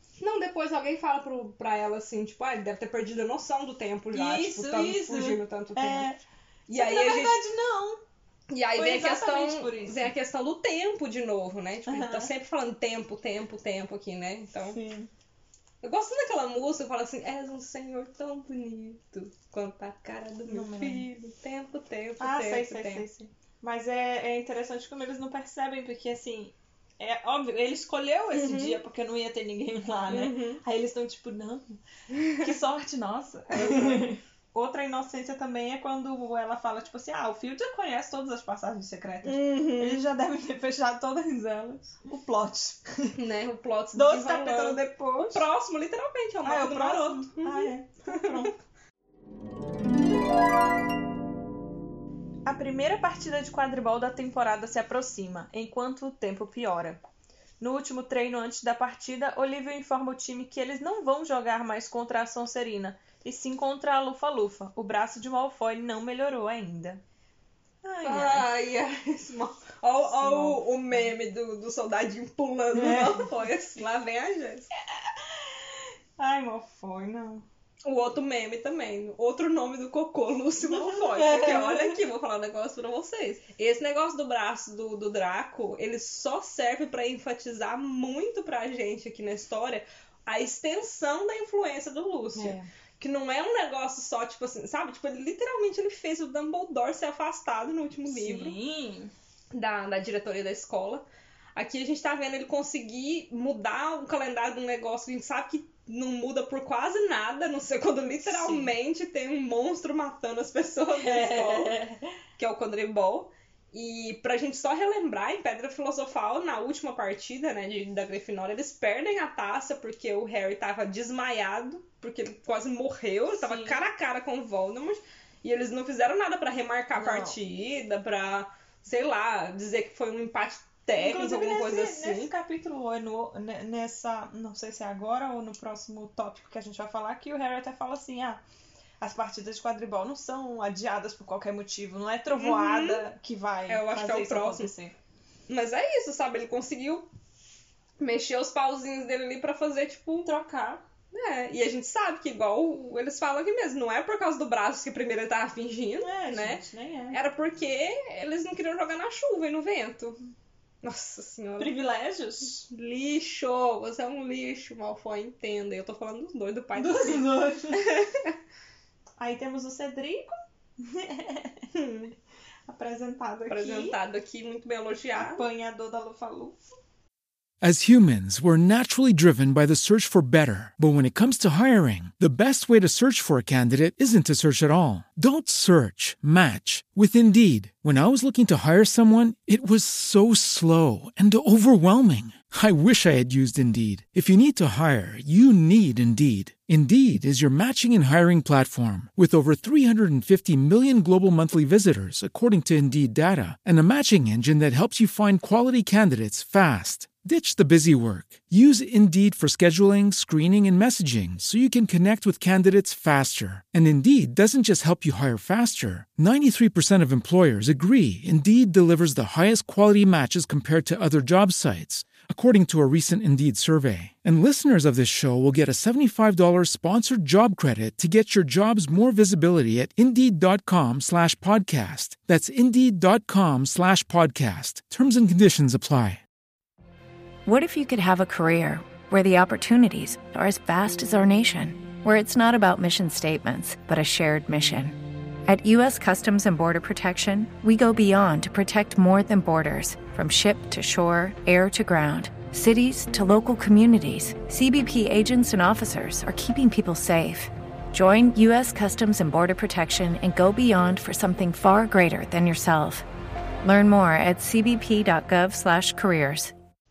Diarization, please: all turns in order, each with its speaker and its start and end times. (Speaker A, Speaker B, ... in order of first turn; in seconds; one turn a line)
Speaker A: 0.2-6.1
Speaker B: 4.1-6.2
Speaker A: 6.7-7.4
Speaker B: 6.7-8.0
Speaker A: 8.5-14.8
Speaker B: 8.7-10.1
Speaker B: 11.8-12.3
Speaker B: 14.7-15.1
Speaker A: 15.8-23.0
Speaker B: 20.5-21.0
Speaker B: 22.2-31.8
Speaker A: 28.3-28.8
Speaker A: 30.1-30.6
Speaker B: 32.3-43.2
Speaker A: 33.5-34.2
Speaker A: 39.2-40.0
Speaker A: 43.1-48.5
Speaker B: 43.9-45.5
Speaker B: 46.4-48.5
Speaker B: 52.4-57.0
Speaker B: 57.6-67.0
Speaker B: 67.8-68.5
Speaker A: 68.0-74.7
Speaker B: 70.0-71.1
Speaker B: 72.7-73.3
Speaker B: 75.3-75.6
Speaker B: 76.2-77.5
Speaker A: 77.8-98.6
Speaker B: 80.6-82.0
Speaker B: 92.3-92.7
Speaker B: 98.0-99.1
Speaker A: 99.5-101.0
Speaker A: 101.5-111.8
Speaker B: 108.2-108.7
Speaker B: 111.0-112.1
Speaker A: 112.4-132.3
Speaker B: 123.3-123.8
Speaker B: 126.9-127.4
Speaker B: 131.0-138.4
Speaker B: 139.0-144.9
Speaker A: 142.3-143.1
Speaker A: 143.7-144.7
Speaker A: 145.5-147.1
Speaker A: 148.0-150.3
Speaker B: 150.2-150.8
Speaker A: 151.1-160.2
Speaker B: 156.0-157.2
Speaker A: 160.8-161.8
Speaker B: 161.6-162.7
Speaker A: 162.7-168.3
Speaker B: 166.8-167.9
Speaker B: 169.2-171.7
Speaker A: 171.7-172.1
Speaker B: 172.7-173.9
Speaker A: 173.5-175.4
Speaker B: 175.2-176.6
Speaker C: 177.6-236.2
Speaker D: 237.4-263.0
Speaker D: 263.6-266.5